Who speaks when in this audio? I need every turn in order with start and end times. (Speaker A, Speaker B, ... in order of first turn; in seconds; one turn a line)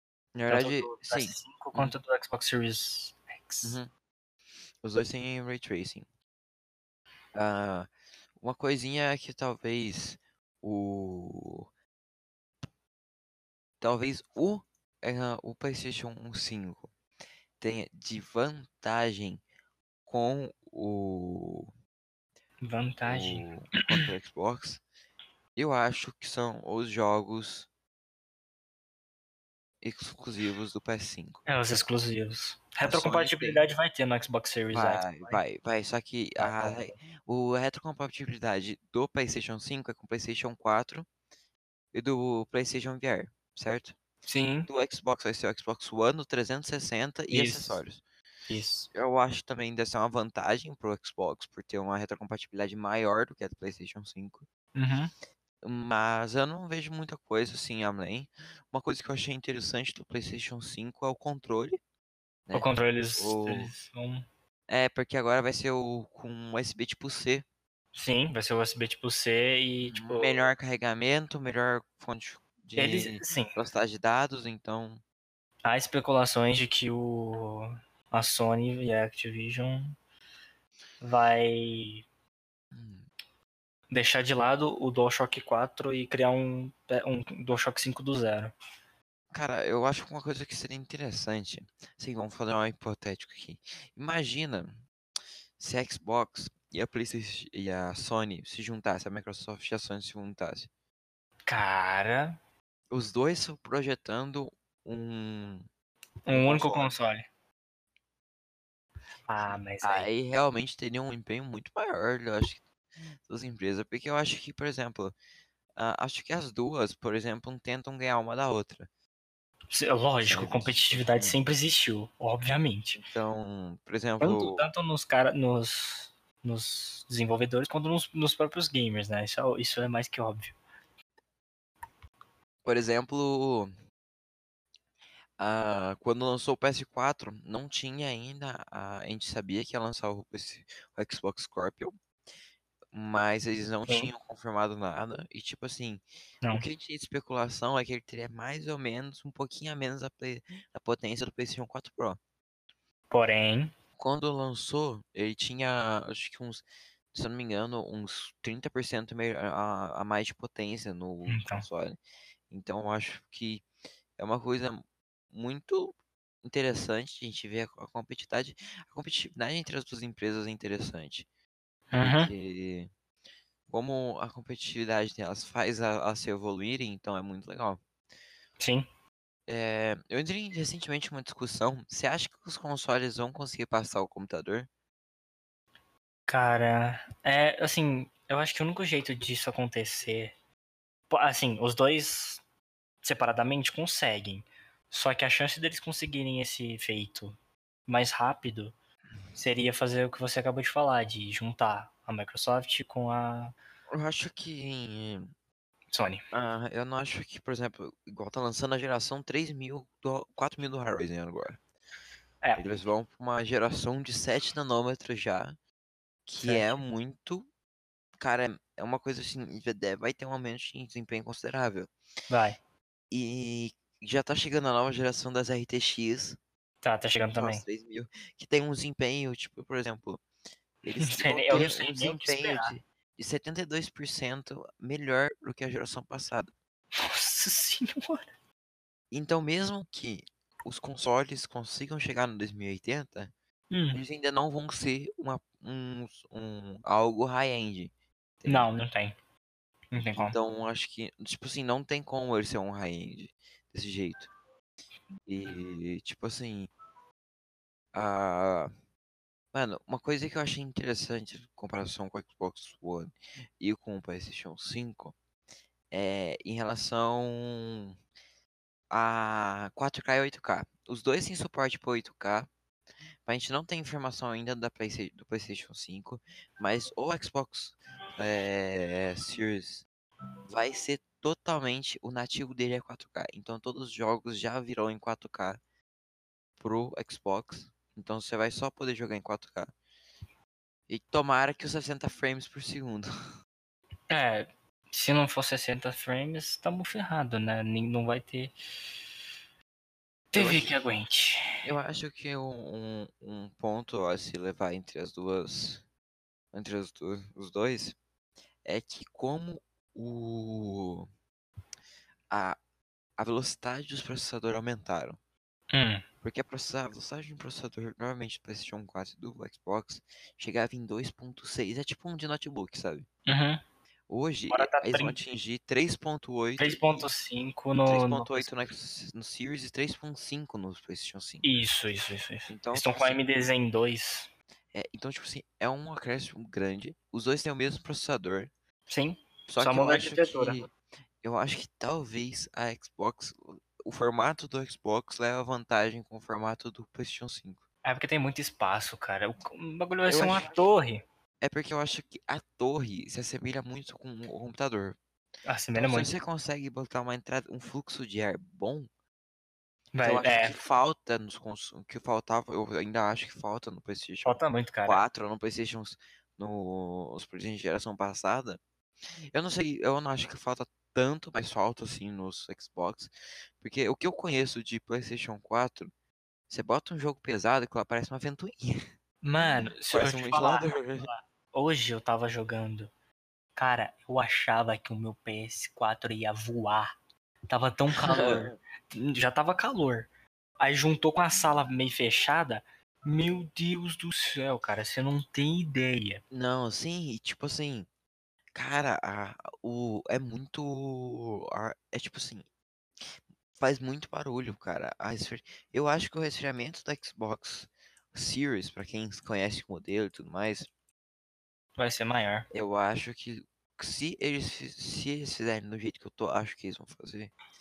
Speaker A: 0.3-2.0
Speaker B: 0.5-3.8
Speaker A: 3.6-3.9
Speaker A: 4.8-6.1
Speaker A: 7.3-7.9
Speaker A: 8.4-11.7
Speaker A: 13.8-16.9
Speaker A: 17.6-19.4
Speaker A: 20.1-21.7
Speaker B: 22.6-23.5
Speaker A: 23.1-24.8
Speaker A: 25.6-27.7
Speaker A: 29.8-31.4
Speaker B: 31.5-35.4
Speaker A: 32.8-33.6
Speaker A: 34.7-41.1
Speaker B: 36.4-36.9
Speaker A: 41.9-44.0
Speaker B: 44.3-44.7
Speaker A: 44.7-48.0
Speaker B: 47.3-47.8
Speaker B: 48.5-48.9
Speaker A: 48.9-54.4
Speaker B: 54.8-55.1
Speaker A: 55.6-61.8
Speaker A: 62.5-63.7
Speaker B: 62.5-64.3
Speaker A: 64.7-67.5
Speaker B: 67.9-70.5
Speaker A: 69.9-75.0
Speaker B: 72.8-73.6
Speaker B: 75.7-80.0
Speaker B: 81.0-82.0
Speaker A: 82.7-83.0
Speaker B: 83.9-88.5
Speaker A: 89.3-94.8
Speaker A: 95.6-100.7
Speaker B: 101.5-102.4
Speaker A: 102.9-105.7
Speaker B: 106.3-107.3
Speaker A: 106.3-107.0
Speaker B: 109.3-110.1
Speaker A: 109.8-112.6
Speaker A: 113.3-115.2
Speaker A: 115.8-118.9
Speaker B: 119.7-123.0
Speaker A: 120.2-121.4
Speaker A: 122.9-124.7
Speaker B: 124.2-130.6
Speaker A: 132.6-133.7
Speaker A: 135.4-141.9
Speaker A: 142.9-152.2
Speaker B: 153.1-153.7
Speaker A: 154.0-156.6
Speaker A: 157.1-162.0
Speaker B: 161.3-161.7
Speaker A: 162.5-163.7
Speaker A: 164.2-171.3
Speaker B: 171.9-172.3
Speaker A: 172.0-172.9
Speaker A: 173.7-177.8
Speaker B: 178.6-178.9
Speaker A: 179.5-184.7
Speaker B: 186.3-190.3
Speaker B: 191.1-192.4
Speaker B: 193.0-198.8
Speaker B: 199.3-203.6
Speaker A: 203.9-205.3
Speaker B: 205.9-206.2
Speaker A: 206.3-211.6
Speaker B: 212.4-212.8
Speaker A: 212.6-215.6
Speaker A: 216.3-217.5
Speaker B: 216.4-216.8
Speaker A: 218.2-221.9
Speaker B: 222.3-222.6
Speaker A: 223.1-226.4
Speaker B: 226.8-227.7
Speaker A: 227.3-230.2
Speaker A: 230.9-236.5
Speaker B: 230.9-232.8
Speaker B: 236.9-238.3
Speaker A: 239.1-243.3
Speaker B: 243.7-244.0
Speaker A: 243.9-248.7
Speaker B: 248.5-249.2
Speaker B: 249.9-250.4
Speaker A: 250.0-254.3
Speaker A: 255.3-256.7
Speaker A: 257.9-258.7
Speaker A: 259.5-265.1
Speaker A: 265.9-268.0
Speaker A: 268.9-272.5
Speaker A: 273.3-279.9
Speaker A: 280.5-285.6
Speaker A: 286.6-289.7
Speaker A: 290.9-293.1
Speaker B: 294.1-298.5
Speaker B: 300.3-301.7
Speaker A: 300.3-300.7
Speaker A: 301.6-305.8
Speaker A: 306.5-308.0
Speaker A: 308.6-311.1
Speaker A: 312.3-312.6
Speaker A: 313.2-315.2
Speaker B: 315.7-316.0
Speaker A: 316.2-323.1
Speaker B: 323.3-323.6
Speaker A: 324.1-327.1
Speaker B: 324.5-325.2
Speaker B: 326.6-328.7
Speaker A: 327.8-331.4
Speaker B: 331.4-334.3
Speaker A: 332.5-333.2
Speaker A: 334.7-338.5
Speaker B: 338.9-340.6
Speaker A: 339.5-347.6
Speaker B: 347.8-351.0
Speaker A: 350.1-350.5
Speaker A: 351.4-355.0
Speaker B: 355.5-356.1
Speaker A: 355.8-358.9
Speaker B: 359.9-360.6
Speaker A: 360.0-368.6
Speaker B: 364.2-365.0
Speaker A: 369.3-375.9
Speaker A: 376.5-378.9
Speaker B: 379.2-382.9
Speaker A: 379.4-381.1
Speaker B: 383.6-386.9
Speaker B: 387.5-390.1
Speaker A: 387.9-388.6
Speaker B: 390.6-396.2
Speaker A: 396.3-397.9
Speaker A: 398.6-402.4
Speaker A: 403.6-410.7
Speaker B: 411.8-412.5
Speaker A: 412.5-417.3